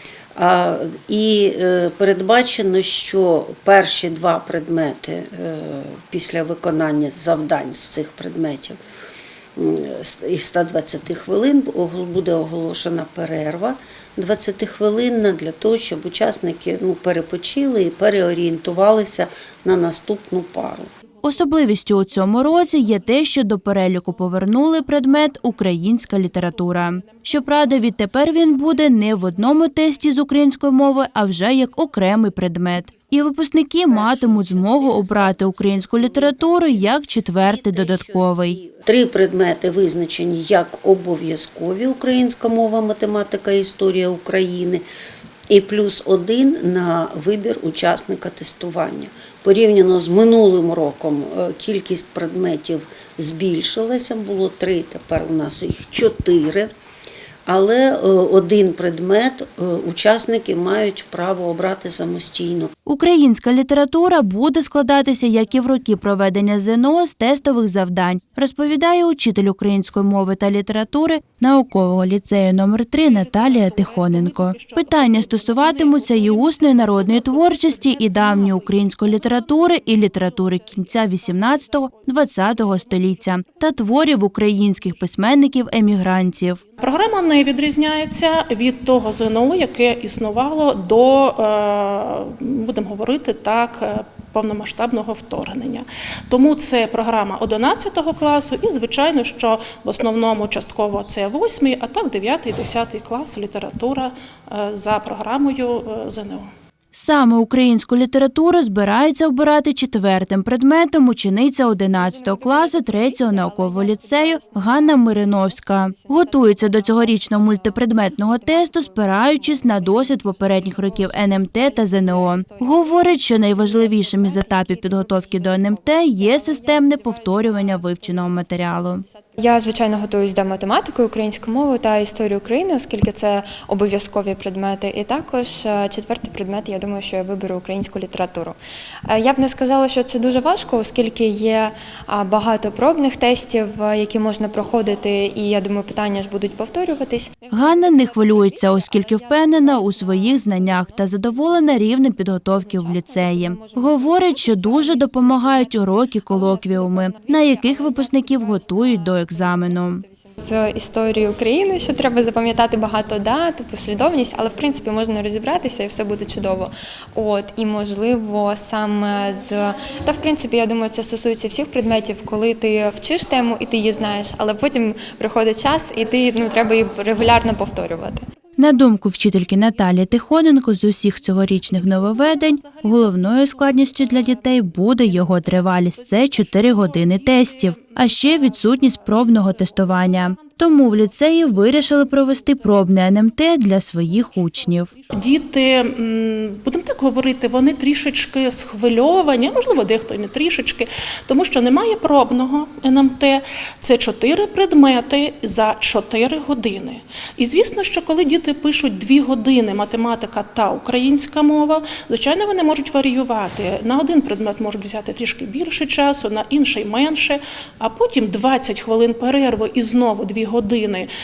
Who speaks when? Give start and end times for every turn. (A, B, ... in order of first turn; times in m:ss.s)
0:00.3-0:08.8 A
0:09.6-0:20.9 A
0:21.2-0:38.6 B
0:33.9-0:44.8 A
0:45.5-0:56.7 A
0:57.4-1:02.7 A
1:02.9-1:26.6 B
1:13.0-1:18.8 C
1:26.8-1:46.5 C
1:46.9-2:09.0 B
1:52.2-2:08.4 D
2:09.4-2:58.2 D
2:27.5-2:40.0 B
2:58.6-3:14.9 B
3:01.5-3:11.5 C
3:15.1-3:41.1 C